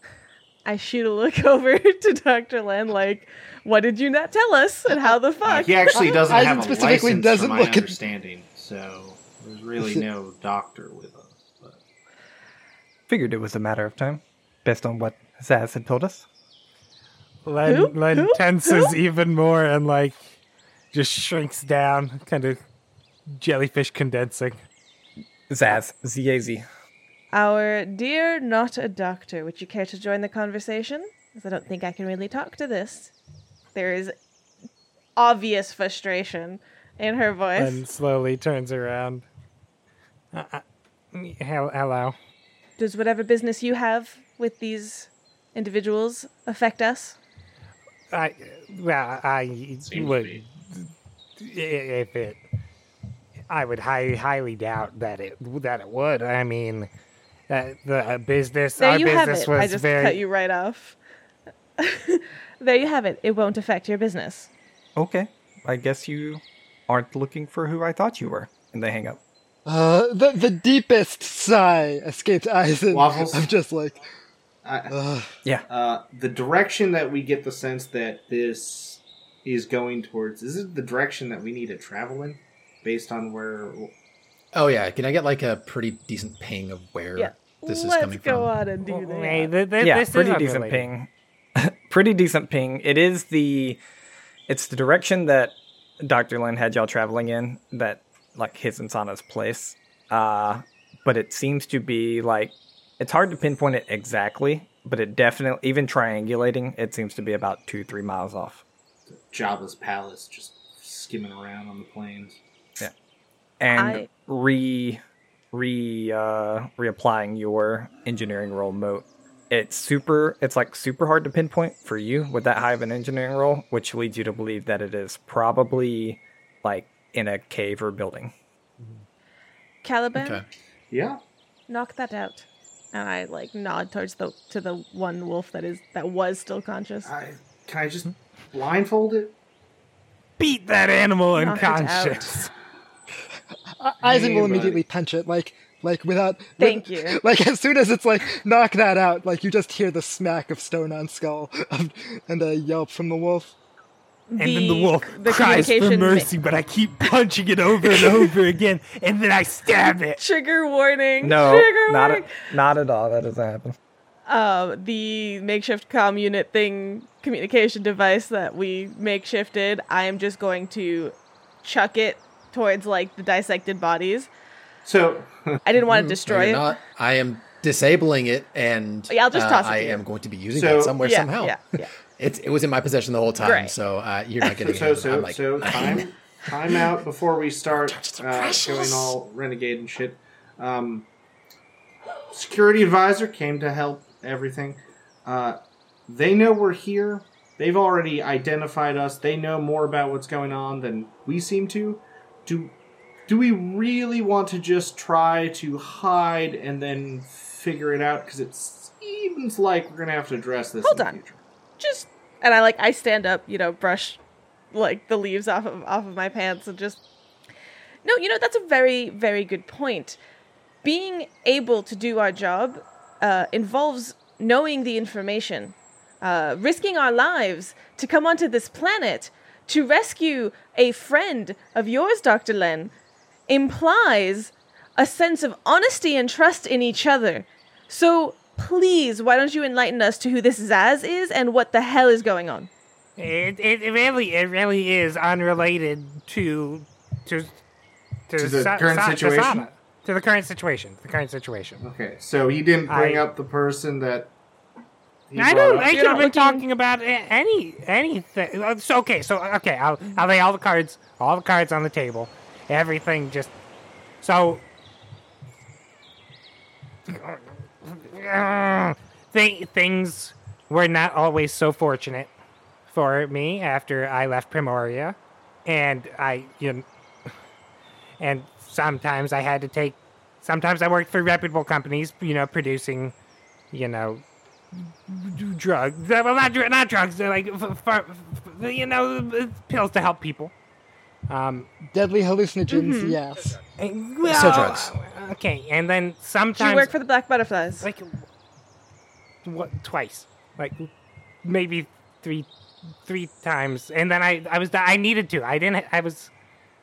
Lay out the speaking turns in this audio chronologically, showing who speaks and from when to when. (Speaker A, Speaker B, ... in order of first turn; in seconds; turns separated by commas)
Speaker A: 0.7-6.7, Speaker B: 5.4-11.8, Speaker C: 5.9-8.0, Speaker C: 9.8-10.0, Speaker D: 13.1-16.3, Speaker E: 17.4-20.2, Speaker A: 17.6-19.0, Speaker E: 20.9-22.6, Speaker E: 23.3-24.6, Speaker D: 25.5-26.6, Speaker A: 27.3-33.1, Speaker A: 33.7-34.1, Speaker A: 35.2-37.8, Speaker E: 37.6-39.2, Speaker E: 40.3-42.1, Speaker A: 42.8-47.2, Speaker E: 48.1-52.4, Speaker B: 49.9-50.4, Speaker E: 53.5-56.9, Speaker E: 57.5-60.2, Speaker A: 58.8-61.0, Speaker A: 61.8-64.5, Speaker D: 65.0-69.2, Speaker C: 69.7-74.0, Speaker B: 72.9-73.5, Speaker B: 74.7-75.0, Speaker C: 74.9-75.3, Speaker B: 75.7-83.9, Speaker F: 84.5-88.5, Speaker A: 87.2-89.5, Speaker E: 88.9-90.9, Speaker D: 89.8-93.8, Speaker D: 94.5-108.6, Speaker B: 109.1-112.4, Speaker D: 113.6-115.0, Speaker A: 113.7-114.1, Speaker D: 115.5-128.3, Speaker A: 129.8-130.4, Speaker F: 130.2-130.4, Speaker B: 130.9-131.2, Speaker A: 131.7-137.1, Speaker B: 137.1-139.3, Speaker E: 140.4-142.5, Speaker A: 141.3-142.4, Speaker C: 143.8-153.6, Speaker B: 144.0-144.8, Speaker A: 146.6-147.2, Speaker A: 154.3-156.3, Speaker E: 154.4-160.2, Speaker A: 157.8-158.3, Speaker A: 160.2-162.3, Speaker D: 161.2-163.8, Speaker A: 164.3-174.3, Speaker B: 174.8-175.6, Speaker A: 175.7-176.8, Speaker F: 175.8-181.6, Speaker A: 179.1-180.0, Speaker B: 180.5-181.0, Speaker A: 181.0-181.9, Speaker F: 182.2-186.1, Speaker A: 183.4-183.7, Speaker B: 184.5-191.1, Speaker F: 187.9-189.2, Speaker B: 192.3-202.8, Speaker B: 203.3-211.4, Speaker A: 210.8-211.2, Speaker A: 211.8-214.2, Speaker A: 214.7-217.0, Speaker A: 218.0-220.2, Speaker A: 220.8-232.9, Speaker A: 233.5-242.7, Speaker E: 243.2-247.6, Speaker E: 248.3-251.8, Speaker B: 248.4-249.7, Speaker B: 251.8-254.3, Speaker E: 252.9-253.3, Speaker B: 255.3-255.9, Speaker E: 255.4-263.5, Speaker A: 255.7-256.7, Speaker E: 264.2-264.6, Speaker E: 267.1-272.3, Speaker E: 272.9-276.9, Speaker E: 278.2-283.1, Speaker E: 283.7-290.5, Speaker E: 291.3-291.7, Speaker C: 291.8-293.6, Speaker A: 292.7-293.2, Speaker E: 293.8-296.9, Speaker F: 294.2-295.0, Speaker A: 296.6-297.9, Speaker E: 297.8-298.2, Speaker E: 299.4-300.9, Speaker E: 301.4-302.5, Speaker E: 303.0-306.3